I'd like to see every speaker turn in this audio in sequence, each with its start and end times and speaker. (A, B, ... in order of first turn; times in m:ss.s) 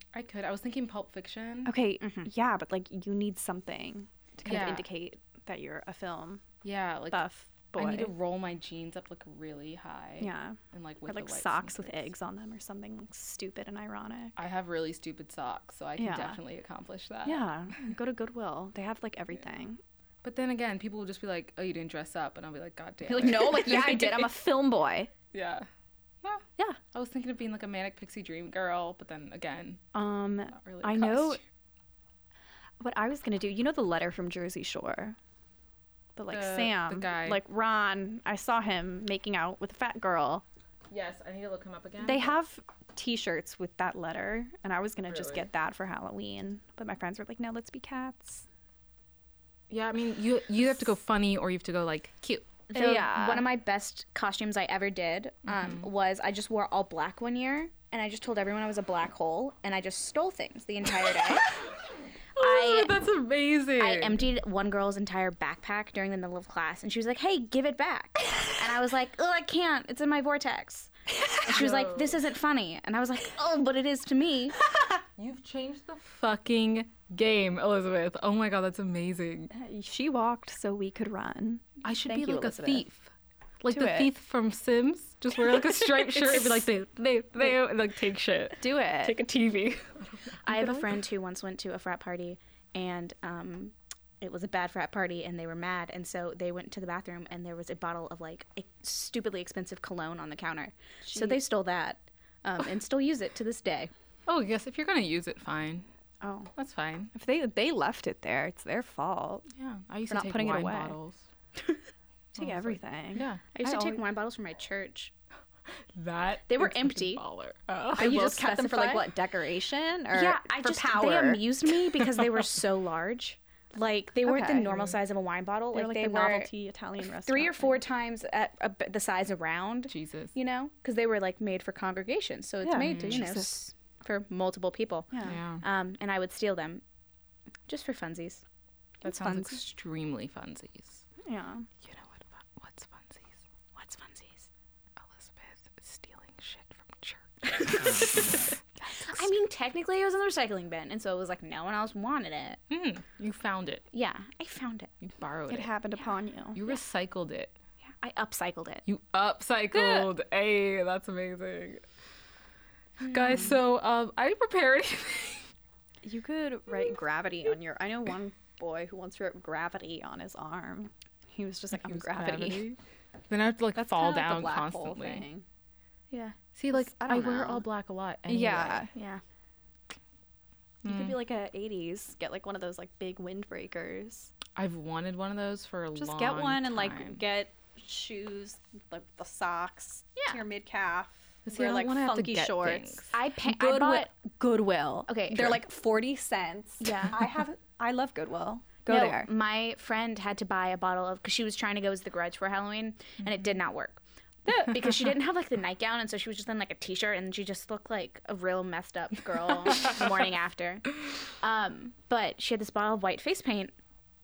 0:00.1-0:01.7 A
0:01.6-0:06.4 B
0:02.0-0:02.3 C
0:04.4-0:04.8 A
0:06.6-0:12.1 A
0:07.1-0:08.1 B
0:10.2-0:14.4 B
0:14.4-0:17.4 A
0:16.0-0:16.4 B
0:17.2-0:19.8 B
0:20.2-0:24.3 A
0:23.0-0:25.1 B
0:25.3-0:25.7 A
0:26.2-0:29.8 A
0:29.9-0:31.4 B
0:30.5-0:31.4 A
0:32.8-0:35.2 B
0:36.2-0:40.4 B
0:36.3-0:37.4 A
0:40.9-0:42.4 A
0:42.0-0:48.4 B
0:45.1-0:45.4 A
0:49.7-0:52.5 A
0:52.7-1:01.6 C
0:52.7-0:53.4 B
0:55.5-0:55.8 A
1:02.4-1:04.2 A
1:02.4-1:02.9 C
1:03.8-1:10.9 C
1:11.4-1:14.6 C
1:11.4-1:12.2 A
1:15.2-1:19.5 A
1:19.5-1:22.8 B
1:21.8-1:23.1 A
1:23.6-1:30.3 A
1:23.7-1:24.1 B
1:25.4-1:26.7 B
1:28.6-1:29.2 B
1:30.4-1:43.9 C
1:30.5-1:30.8 B
1:41.0-1:41.4 B
1:44.3-1:45.8 A
1:46.2-1:46.5 B
1:46.6-1:47.1 A
1:47.1-1:49.4 B
1:49.6-1:51.2 A
1:50.1-1:51.0 B
1:52.3-1:54.0 B
1:52.4-1:53.4 A
1:53.5-1:55.1 C
1:55.9-1:58.3 A
1:56.5-1:57.2 C
1:57.9-2:01.4 B
1:58.0-1:59.1 C
2:00.1-2:06.5 C
2:04.2-2:04.7 B
2:04.6-2:05.0 A
2:05.7-2:07.8 B
2:07.2-2:16.8 C
2:09.9-2:10.3 A
2:12.6-2:13.5 B
2:12.8-2:13.2 A
2:15.2-2:15.6 A
2:17.7-2:18.4 C
2:19.0-2:19.6 B
2:19.0-2:21.0 A
2:21.2-2:21.7 B
2:21.8-2:23.4 A
2:23.7-2:24.5 C
2:25.0-2:28.2 A
2:27.6-2:32.6 C
2:32.7-2:33.8 A
2:33.9-2:35.1 C
2:35.1-2:35.7 A
2:35.5-2:36.6 B
2:36.5-2:37.6 A
2:38.0-2:38.8 C
2:38.8-2:41.8 A
2:39.7-2:40.1 B
2:43.0-2:45.5 A
2:46.0-2:52.6 B
2:51.7-2:52.8 A
2:53.3-2:55.2 A
2:53.8-2:55.4 B
2:56.1-2:56.4 C
2:56.5-2:58.9 A
2:56.7-2:57.6 B
2:58.3-2:58.9 B
2:58.9-2:59.2 C
3:00.8-3:01.2 A
3:00.8-3:04.3 B
3:04.5-3:07.2 A
3:06.0-3:19.3 B
3:10.2-3:10.4 C
3:11.4-3:13.2 A
3:13.1-3:14.1 C
3:15.1-3:15.6 C
3:16.8-3:17.2 C
3:18.9-3:33.7 C
3:29.6-3:30.1 A